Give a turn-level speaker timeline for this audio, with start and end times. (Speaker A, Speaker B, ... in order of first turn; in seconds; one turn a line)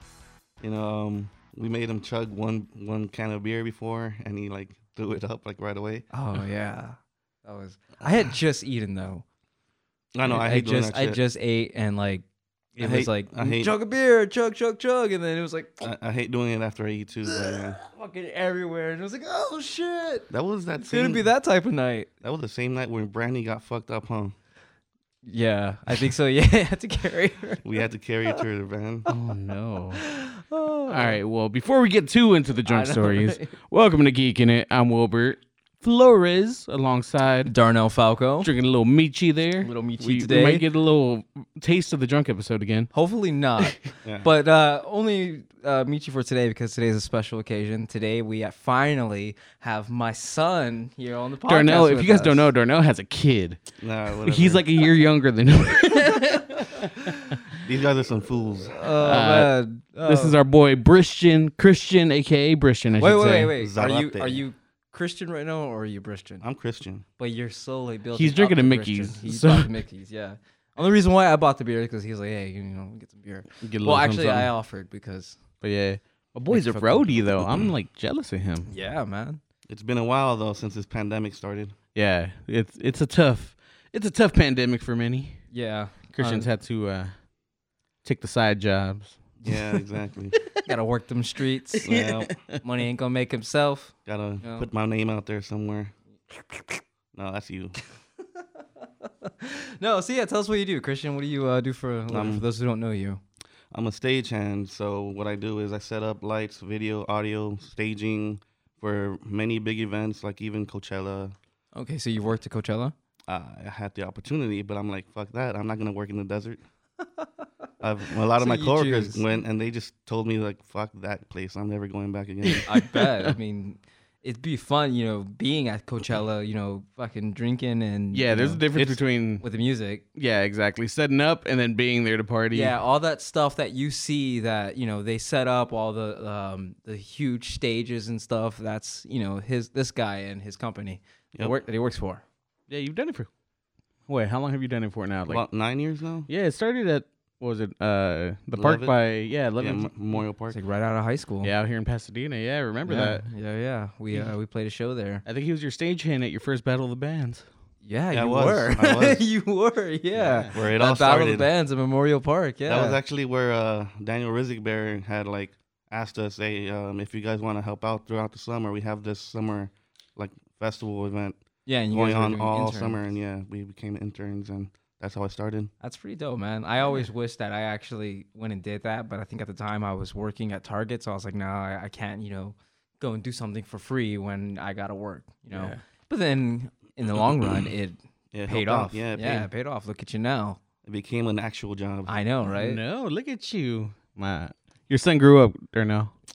Speaker A: 0.6-6.0
Speaker B: 6.1-9.2
Speaker A: 10.1-11.2
Speaker B: 10.2-12.2
Speaker A: 12.8-13.7
Speaker B: 12.8-15.9
Speaker A: 15.8-17.8
Speaker B: 17.2-22.1
Speaker A: 20.3-21.2
Speaker A: 22.2-24.3
Speaker B: 25.2-27.6
Speaker A: 27.6-29.1
Speaker C: 29.1-30.0
Speaker B: 29.9-31.2
Speaker C: 30.9-37.5
Speaker B: 32.6-33.5
Speaker B: 37.5-38.5
Speaker C: 38.4-42.9
Speaker B: 39.6-40.6
Speaker B: 42.9-52.5
Speaker A: 44.0-44.3
Speaker C: 51.5-53.6
Speaker A: 53.8-54.7
Speaker C: 54.2-57.6
Speaker B: 56.1-56.8
Speaker A: 57.6-58.8
Speaker B: 58.7-60.4
Speaker C: 59.0-63.5
Speaker B: 63.0-66.4
Speaker A: 63.4-64.4
Speaker A: 66.4-67.0
Speaker B: 67.2-75.4
Speaker C: 68.1-69.7
Speaker C: 73.6-74.5
Speaker C: 75.6-78.7
Speaker B: 76.5-77.5
Speaker B: 78.7-79.4
Speaker A: 79.7-81.7
Speaker C: 81.9-85.4
Speaker B: 85.5-86.5
Speaker C: 86.1-87.1
Speaker C: 88.0-89.8
Speaker A: 89.4-90.4
Speaker B: 90.6-91.9
Speaker C: 91.8-92.6
Speaker A: 91.8-92.3
Speaker B: 92.6-94.7
Speaker A: 94.0-95.9
Speaker B: 96.5-96.8
Speaker A: 97.1-97.8
Speaker B: 99.0-103.2
Speaker A: 102.1-102.4
Speaker A: 103.7-111.3
Speaker B: 111.7-112.9
Speaker A: 113.3-116.6
Speaker A: 117.8-122.7
Speaker B: 118.3-119.2
Speaker C: 122.4-123.0
Speaker B: 122.6-128.6
Speaker C: 128.1-129.4
Speaker A: 128.7-129.0
Speaker B: 129.4-130.0
Speaker C: 130.1-132.7
Speaker B: 132.5-142.2
Speaker C: 142.7-143.3
Speaker C: 144.1-145.4
Speaker A: 145.3-146.3
Speaker C: 146.3-149.9
Speaker A: 148.5-148.9
Speaker A: 149.6-150.6
Speaker B: 150.5-151.5
Speaker C: 151.4-153.2
Speaker B: 152.8-155.2
Speaker C: 155.2-157.4
Speaker B: 157.8-163.0
Speaker A: 158.1-159.2
Speaker C: 160.2-160.5
Speaker A: 160.5-161.5
Speaker A: 162.7-171.4
Speaker B: 171.7-173.0
Speaker A: 171.9-175.7
Speaker B: 175.8-190.6
Speaker C: 185.5-185.8
Speaker A: 188.3-189.5
Speaker A: 190.8-192.1
Speaker B: 192.1-192.8
Speaker C: 192.5-196.1